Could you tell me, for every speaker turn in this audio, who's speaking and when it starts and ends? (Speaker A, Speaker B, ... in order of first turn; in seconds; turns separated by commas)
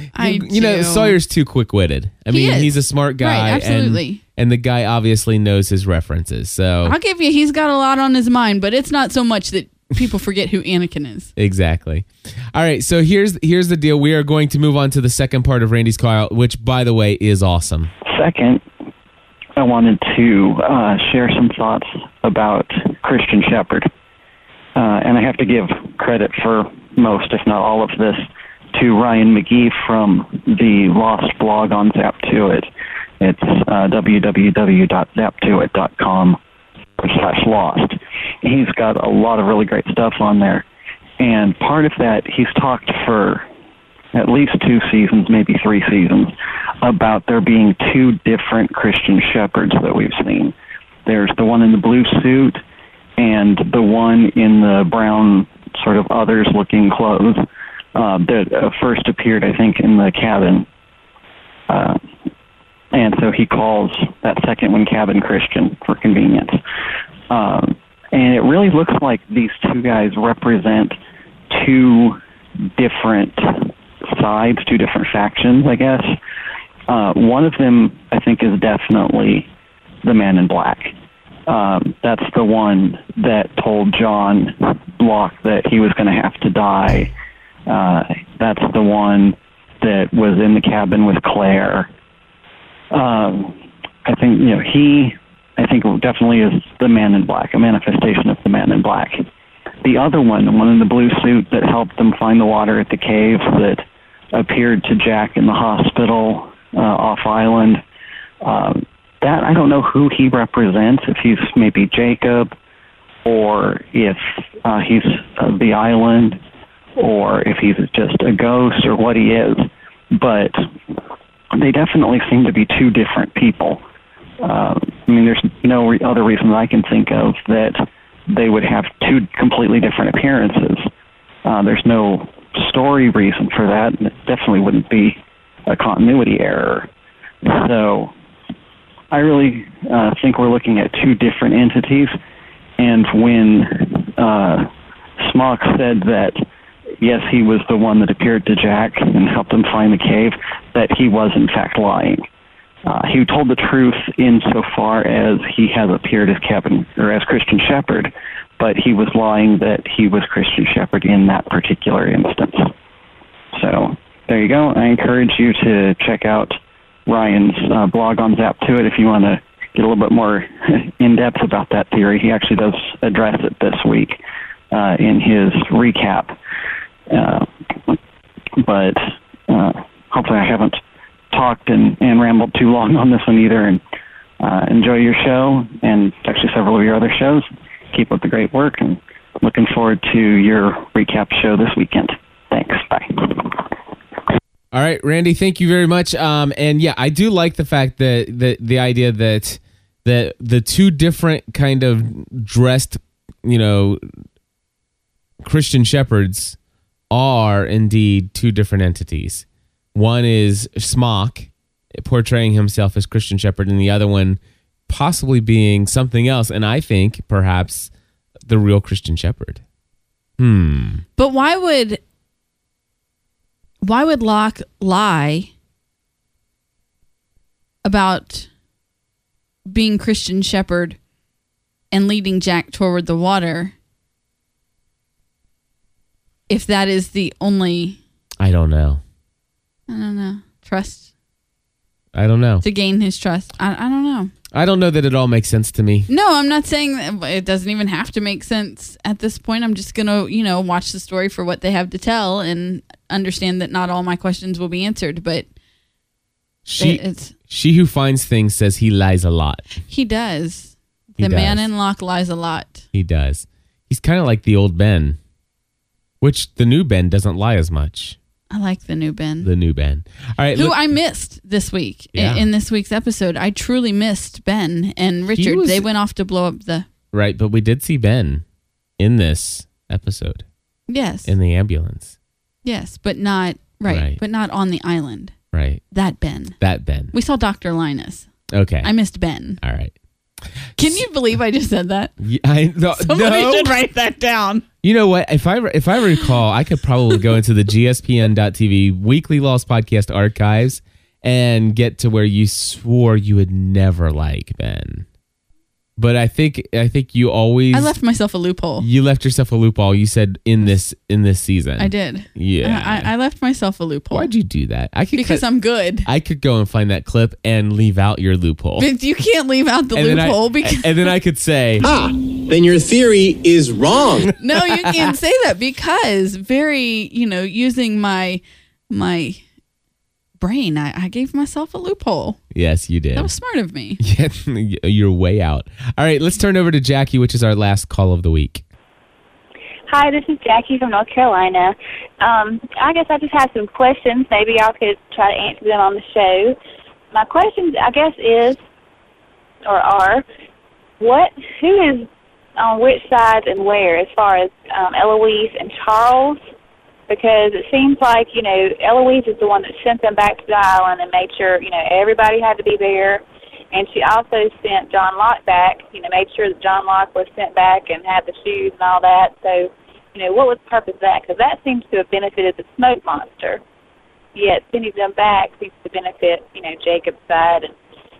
Speaker A: 0.1-1.2, Speaker B: 0.1-6.9, Speaker A: 2.3-4.2, Speaker A: 6.8-11.3, Speaker B: 11.3-17.9, Speaker C: 18.1-18.6, Speaker C: 19.6-23.9, Speaker C: 24.8-32.7, Speaker C: 33.2-36.4, Speaker C: 37.0-40.6, Speaker C: 41.2-43.5, Speaker C: 44.1-50.5, Speaker C: 51.0-52.6, Speaker C: 53.2-57.4, Speaker C: 58.0-60.6, Speaker C: 61.7-62.0, Speaker C: 62.9-66.6, Speaker C: 67.3-71.0, Speaker C: 71.5-72.2, Speaker C: 72.7-76.2, Speaker C: 76.9-79.5, Speaker C: 80.0-80.9, Speaker C: 81.5-87.1, Speaker C: 87.7-91.9, Speaker C: 92.9-99.2, Speaker C: 99.8-103.8, Speaker C: 104.3-107.8, Speaker C: 108.4-112.5, Speaker C: 113.2-116.4, Speaker C: 117.0-120.6, Speaker C: 121.5-123.8, Speaker C: 124.4-130.9, Speaker C: 131.4-136.9, Speaker C: 137.4-138.1, Speaker C: 139.1-142.1, Speaker C: 142.8-144.7, Speaker C: 145.2-146.4, Speaker C: 147.0-152.2, Speaker C: 152.9-162.7, Speaker C: 163.5-166.6, Speaker C: 167.1-174.2, Speaker C: 174.7-176.3, Speaker C: 177.1-178.0, Speaker C: 178.6-180.8, Speaker C: 181.3-183.8, Speaker C: 184.4-193.6, Speaker B: 194.7-204.0, Speaker B: 205.4-206.6, Speaker B: 207.1-217.9, Speaker B: 218.4-219.6, Speaker B: 220.4-221.0, Speaker A: 221.2-222.0, Speaker A: 223.8-225.5, Speaker A: 227.8-228.5, Speaker A: 229.7-231.0, Speaker A: 231.9-233.7, Speaker A: 236.5-238.0, Speaker B: 238.4-239.0, Speaker A: 239.9-241.1, Speaker B: 242.1-242.6, Speaker A: 242.6-244.3, Speaker B: 244.5-246.1, Speaker A: 246.1-255.5, Speaker B: 256.6-259.7, Speaker A: 256.8-257.3, Speaker A: 259.9-262.8, Speaker B: 261.2-261.7, Speaker B: 262.9-265.2, Speaker B: 266.2-268.1, Speaker A: 268.5-269.5, Speaker B: 269.4-270.9, Speaker A: 270.5-276.9, Speaker B: 272.1-272.5, Speaker B: 275.4-275.8, Speaker B: 277.1-278.4, Speaker B: 279.0-280.4, Speaker A: 280.9-281.3, Speaker B: 281.2-282.1, Speaker A: 282.6-285.4, Speaker B: 283.9-284.2, Speaker B: 285.5-285.8, Speaker A: 285.9-286.6, Speaker B: 286.6-287.1, Speaker A: 287.1-288.3, Speaker B: 288.5-288.9, Speaker A: 288.8-289.6, Speaker B: 289.6-289.9, Speaker A: 290.8-292.1, Speaker B: 292.2-293.7, Speaker A: 293.0-294.6, Speaker B: 294.8-305.1, Speaker B: 306.0-307.9, Speaker A: 307.7-308.9, Speaker B: 308.8-313.1, Speaker A: 311.8-314.3, Speaker B: 314.1-315.4, Speaker A: 315.1-316.1, Speaker B: 316.0-318.9, Speaker A: 318.8-321.1, Speaker B: 319.9-321.8, Speaker D: 321.8-324.3, Speaker A: 324.4-329.4, Speaker A: 330.4-332.4, Speaker B: 332.5-333.3, Speaker A: 333.1-334.0, Speaker B: 334.0-338.6, Speaker E: 339.9-346.6, Speaker E: 347.1-348.6, Speaker E: 349.6-350.2, Speaker E: 351.0-356.4, Speaker E: 357.1-373.6, Speaker E: 374.3-377.7